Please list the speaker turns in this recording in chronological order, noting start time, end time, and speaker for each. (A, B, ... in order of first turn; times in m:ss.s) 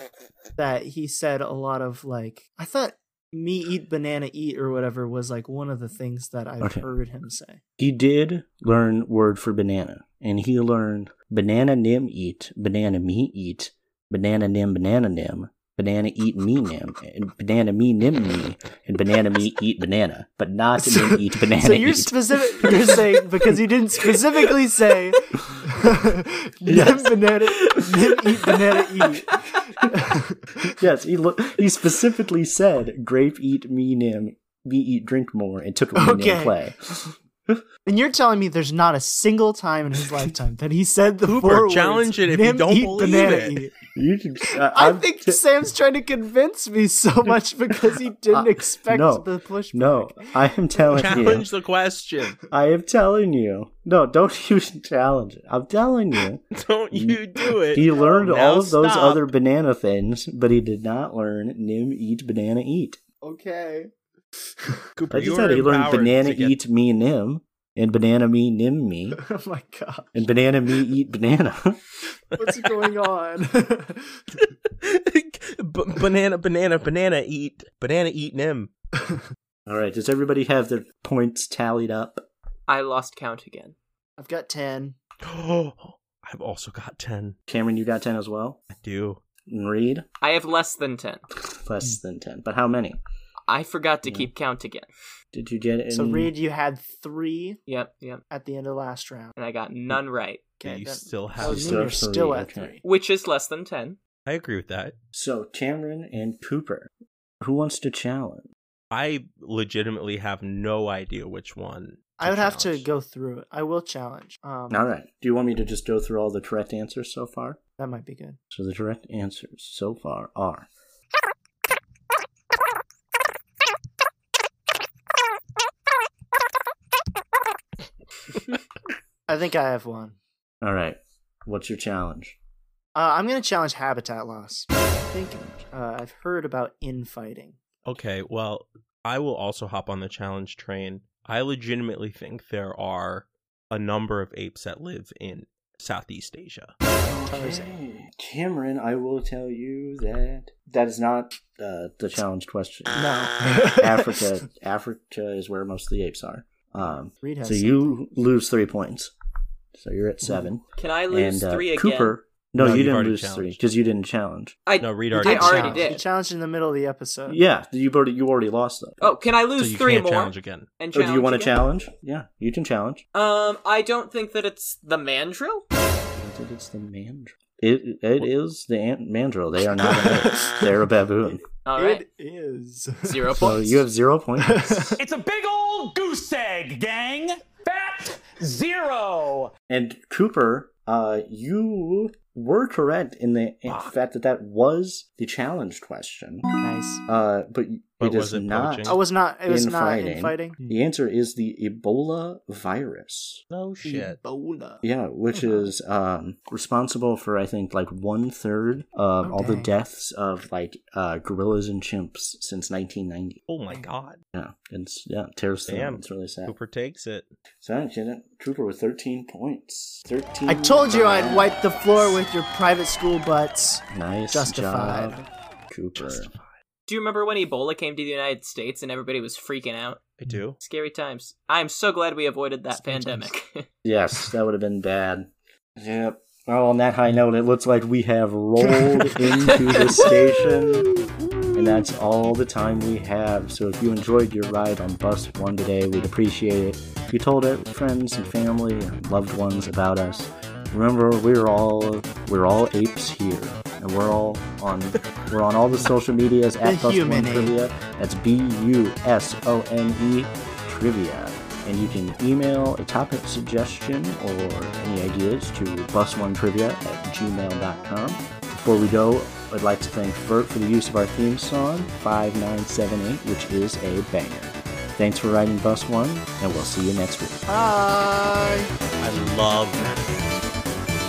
0:00.6-0:07.6 A
0:06.6-0:06.8 B
0:07.8-0:23.6 B
0:20.8-0:30.8 A
0:25.3-0:25.7 B
0:26.6-0:27.2 B
0:27.7-0:28.6 C
0:30.6-0:37.6 B
0:35.9-0:36.6 A
0:37.8-0:43.8 A
0:41.2-0:43.7 D
0:43.9-0:45.4 B
0:44.6-0:51.4 A
0:48.3-0:51.5 B
0:50.9-0:52.4 D
0:52.5-1:03.0 B
0:56.5-0:59.3 D
0:57.8-0:58.3 A
1:03.2-1:03.9 A
1:05.0-1:06.5 D
1:05.1-1:09.2 B
1:09.2-1:10.2 A
1:10.1-1:11.8 B
1:12.4-1:14.2 A
1:12.4-1:12.8 D
1:14.4-1:18.7 D
1:19.6-1:22.2 B
1:22.7-1:23.7 C
1:24.2-1:25.0 A
1:25.2-1:27.4 D
1:27.5-1:28.6 B
1:28.7-1:29.2 D
1:29.4-1:30.0 B
1:30.2-1:31.2 C
1:31.4-1:33.0 B
1:33.5-1:34.9 C
1:34.0-1:34.3 B
1:35.3-1:36.3 B
1:35.9-1:37.6 A
1:37.7-1:38.2 C
1:38.3-1:39.3 A
1:39.4-1:40.6 C
1:40.6-1:42.8 A
1:40.6-1:42.0 D
1:41.4-1:42.7 B
1:42.8-1:44.0 C
1:44.2-1:44.9 D
1:45.1-1:46.9 B
1:47.4-1:48.5 B
1:48.9-1:52.8 D
1:52.2-1:54.9 A
1:54.7-1:57.6 B
1:57.8-1:58.4 A
1:58.5-2:00.7 B
2:09.3-2:10.2 A
2:10.6-2:12.4 B
2:12.9-2:17.6 A
2:17.8-2:26.7 D
2:27.0-2:27.7 A
2:27.1-2:39.1 B
2:32.9-2:34.2 A
2:37.2-2:37.9 A
2:39.7-2:44.6 B
2:40.8-2:42.2 C
2:42.6-2:43.6 D
2:44.7-2:46.0 C
2:44.8-2:45.9 D
2:45.2-2:47.4 A
2:47.3-2:49.3 B
2:49.0-2:51.6 C
2:49.6-2:50.7 D
2:50.9-2:53.0 B
2:53.1-2:55.6 C
2:56.1-3:01.4 B
3:00.1-3:00.6 A
3:01.6-3:02.0 C
3:01.8-3:03.4 A
3:03.0-3:03.8 C
3:03.3-3:05.0 B
3:04.4-3:05.0 A
3:05.0-3:09.5 E
3:09.7-3:16.5 B
3:13.6-3:13.9 D
3:16.6-3:17.0 A
3:17.1-3:23.4 B
3:18.0-3:19.0 D
3:18.8-3:20.8 A
3:23.5-3:24.2 D
3:23.8-3:25.7 A
3:24.8-3:33.4 B
3:29.2-3:29.7 A
3:33.5-3:34.2 D
3:34.3-3:36.6 B
3:35.7-3:37.3 D
3:37.6-3:42.2 B
3:40.5-3:45.2 A
3:43.9-3:46.3 B
3:46.0-3:46.5 D
3:46.9-3:53.6 C
3:50.2-3:50.6 D
3:53.8-4:00.9 B
3:59.5-4:00.1 C
4:01.5-4:37.4 B
4:16.6-4:17.6 A
4:37.5-4:38.7 A
4:39.0-4:40.7 D